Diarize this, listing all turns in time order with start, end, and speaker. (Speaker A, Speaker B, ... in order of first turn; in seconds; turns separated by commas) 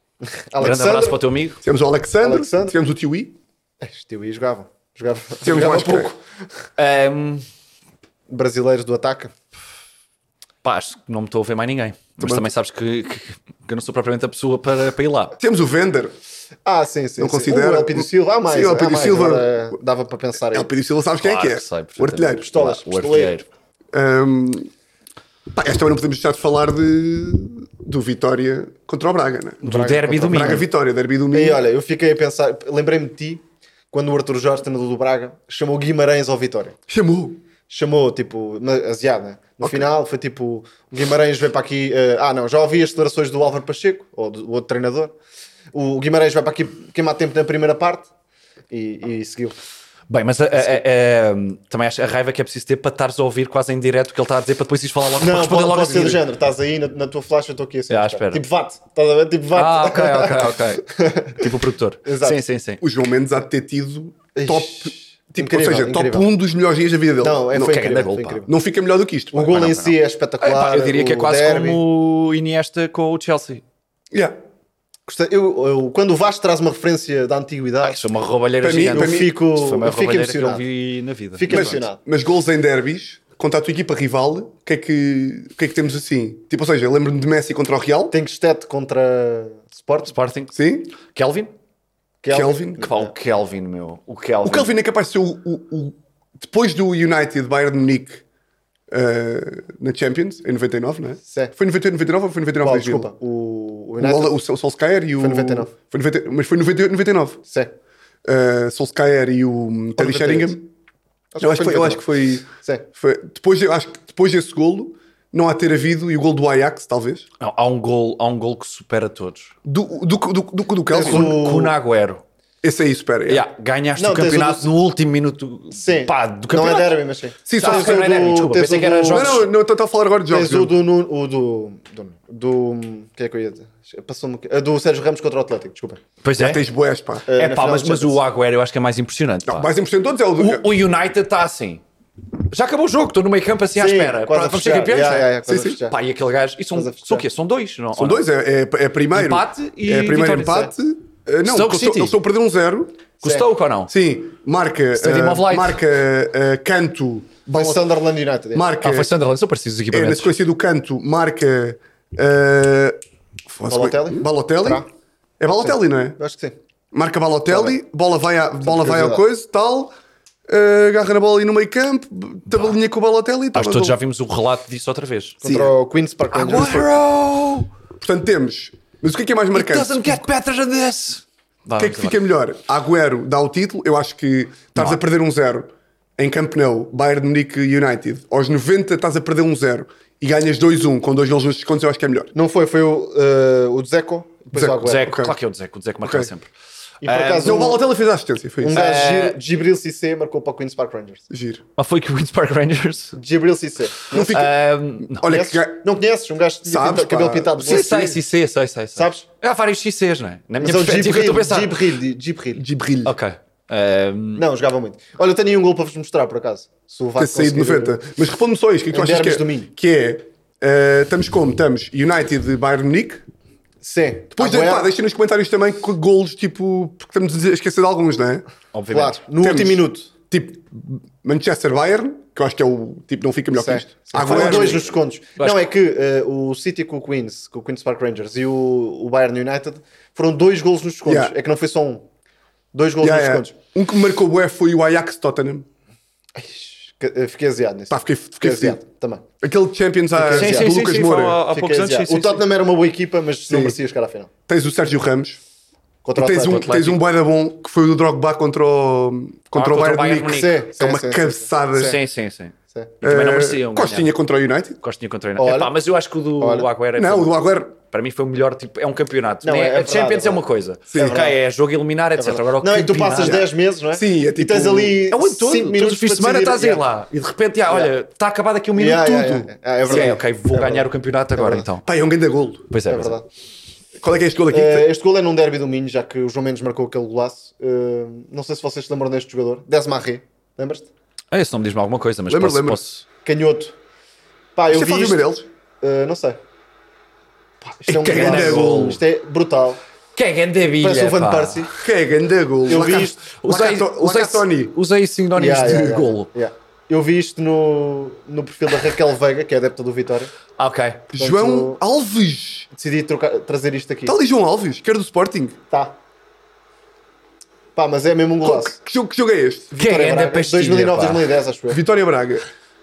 Speaker A: 0.4-1.2, Speaker B: 0.6-1.6, Speaker C: 1.6-3.4, Speaker A: 2.2-2.8, Speaker A: 3.8-6.1, Speaker C: 5.4-6.1, Speaker B: 5.7-6.0, Speaker B: 6.8-7.5, Speaker A: 8.3-9.3, Speaker B: 10.6-15.4, Speaker C: 12.2-12.5, Speaker C: 15.4-16.1, Speaker A: 16.6-20.7, Speaker C: 17.2-19.7, Speaker C: 20.5-22.5, Speaker B: 21.2-23.4, Speaker A: 22.4-23.4, Speaker C: 23.9-24.7, Speaker C: 25.5-29.7, Speaker B: 29.6-30.6, Speaker A: 29.6-30.6, Speaker C: 30.2-31.6, Speaker A: 31.3-36.8, Speaker C: 36.9-37.4, Speaker A: 37.7-45.1, Speaker A: 45.7-48.1, Speaker A: 48.7-49.6, Speaker B: 50.1-56.2, Speaker A: 55.2-61.5, Speaker B: 57.9-58.4, Speaker B: 59.5-62.8, Speaker A: 62.0-62.4, Speaker C: 62.8-67.8, Speaker A: 64.3-66.3, Speaker A: 67.2-68.5, Speaker B: 67.6-68.4, Speaker C: 68.5-69.6, Speaker A: 69.3-71.8, Speaker B: 69.5-73.6, Speaker C: 74.1-74.4, Speaker A: 75.1-78.0, Speaker B: 77.8-81.8, Speaker C: 78.6-79.3, Speaker A: 78.9-80.6, Speaker A: 81.3-82.0, Speaker C: 81.5-88.2, Speaker A: 88.1-90.1, Speaker B: 90.1-91.5, Speaker C: 90.5-90.9, Speaker A: 92.2-93.1, Speaker C: 92.3-92.8, Speaker B: 92.8-94.7, Speaker C: 94.4-98.2, Speaker C: 98.9-103.1, Speaker A: 101.2-101.5, Speaker A: 102.6-104.3, Speaker C: 104.0-107.4, Speaker A: 105.2-105.7, Speaker A: 107.5-107.7, Speaker C: 108.2-110.7, Speaker A: 110.0-110.6, Speaker A: 111.3-112.8, Speaker C: 111.4-117.3, Speaker B: 117.4-119.5, Speaker C: 119.7-121.4, Speaker A: 120.9-121.8, Speaker B: 121.0-122.2, Speaker C: 122.6-123.5, Speaker B: 123.3-127.0, Speaker A: 124.0-124.7, Speaker A: 125.7-129.4, Speaker C: 127.5-128.2, Speaker B: 127.5-129.5, Speaker C: 129.1-130.7, Speaker A: 130.3-136.0, Speaker B: 136.2-136.6, Speaker C: 136.4-137.3, Speaker A: 137.3-138.2, Speaker B: 137.3-139.7, Speaker C: 139.5-140.7, Speaker B: 140.4-141.8, Speaker B: 142.5-148.2, Speaker A: 143.8-146.0, Speaker C: 145.5-145.8, Speaker A: 146.7-147.2, Speaker C: 147.9-153.0, Speaker B: 149.1-150.7, Speaker B: 151.4-152.2, Speaker B: 153.2-153.9, Speaker C: 153.9-157.8, Speaker B: 155.0-155.8, Speaker A: 157.5-158.7, Speaker C: 158.5-159.1, Speaker B: 158.8-160.3, Speaker C: 159.9-163.0, Speaker C: 163.5-164.8, Speaker A: 163.6-164.9, Speaker C: 165.4-166.2, Speaker A: 165.6-166.6, Speaker C: 166.9-169.9, Speaker A: 167.5-167.8, Speaker A: 168.6-169.2, Speaker C: 170.5-174.0, Speaker B: 173.5-175.4, Speaker A: 175.4-176.9, Speaker C: 175.4-175.7, Speaker B: 176.3-177.7, Speaker C: 176.4-176.9, Speaker C: 178.0-180.2, Speaker B: 179.5-182.2, Speaker C: 181.8-192.3, Speaker B: 184.8-185.0, Speaker A: 192.3-195.1, Speaker C: 194.6-195.3, Speaker B: 194.7-196.5, Speaker C: 196.0-196.3, Speaker A: 197.0-197.8, Speaker B: 197.0-197.7, Speaker C: 197.4-198.8, Speaker A: 198.6-201.2, Speaker B: 198.7-199.4, Speaker C: 201.3-201.6, Speaker B: 201.8-203.2, Speaker A: 203.2-204.3, Speaker C: 204.1-205.8, Speaker B: 204.2-205.3, Speaker A: 205.2-208.1, Speaker C: 206.7-208.2, Speaker B: 207.6-211.8, Speaker A: 209.0-209.2, Speaker A: 210.6-212.6, Speaker C: 212.6-213.2, Speaker B: 213.1-214.4, Speaker A: 214.4-218.0, Speaker C: 217.2-223.2, Speaker A: 218.9-219.7, Speaker A: 223.8-224.9, Speaker C: 224.3-228.4, Speaker B: 228.7-229.2, Speaker A: 228.9-230.1, Speaker C: 229.4-234.8, Speaker A: 233.5-242.1, Speaker B: 234.2-235.7, Speaker C: 241.1-241.3, Speaker A: 242.7-243.6, Speaker C: 243.0-245.7, Speaker A: 246.4-249.2, Speaker C: 247.9-248.8, Speaker C: 249.4-251.4, Speaker A: 250.2-250.8, Speaker B: 250.3-252.4, Speaker A: 251.5-254.3, Speaker C: 253.5-253.8, Speaker C: 254.5-255.4, Speaker A: 256.0-256.7, Speaker C: 256.2-262.0, Speaker B: 256.4-257.0, Speaker B: 259.5-260.6, Speaker A: 260.3-262.0, Speaker B: 261.8-264.1, Speaker C: 263.0-264.8, Speaker B: 264.8-273.4, Speaker A: 265.4-265.7, Speaker A: 266.4-266.7, Speaker C: 267.0-267.7, Speaker A: 269.4-270.4, Speaker C: 270.9-271.2, Speaker A: 270.9-271.4, Speaker A: 272.2-276.9, Speaker C: 273.2-275.0, Speaker B: 275.1-281.9, Speaker A: 278.8-281.7, Speaker C: 281.9-282.7, Speaker B: 282.7-283.2, Speaker A: 282.9-283.3, Speaker C: 284.0-284.9, Speaker A: 284.5-290.9, Speaker B: 291.3-293.1, Speaker C: 292.3-292.8, Speaker A: 293.2-293.8, Speaker A: 294.6-296.4, Speaker C: 294.7-295.5, Speaker A: 297.8-299.8, Speaker C: 297.9-299.0, Speaker B: 297.9-299.0, Speaker B: 300.1-301.8, Speaker A: 300.8-301.7, Speaker C: 301.8-304.8, Speaker A: 302.7-303.3, Speaker B: 303.2-306.3, Speaker A: 305.4-310.3, Speaker B: 310.6-311.1, Speaker C: 311.1-312.7, Speaker A: 311.2-311.8, Speaker A: 312.7-314.2, Speaker C: 314.1-315.6, Speaker A: 315.7-316.0, Speaker A: 317.8-318.8, Speaker C: 318.4-319.7, Speaker A: 319.7-321.8, Speaker B: 319.8-321.3, Speaker C: 321.7-322.5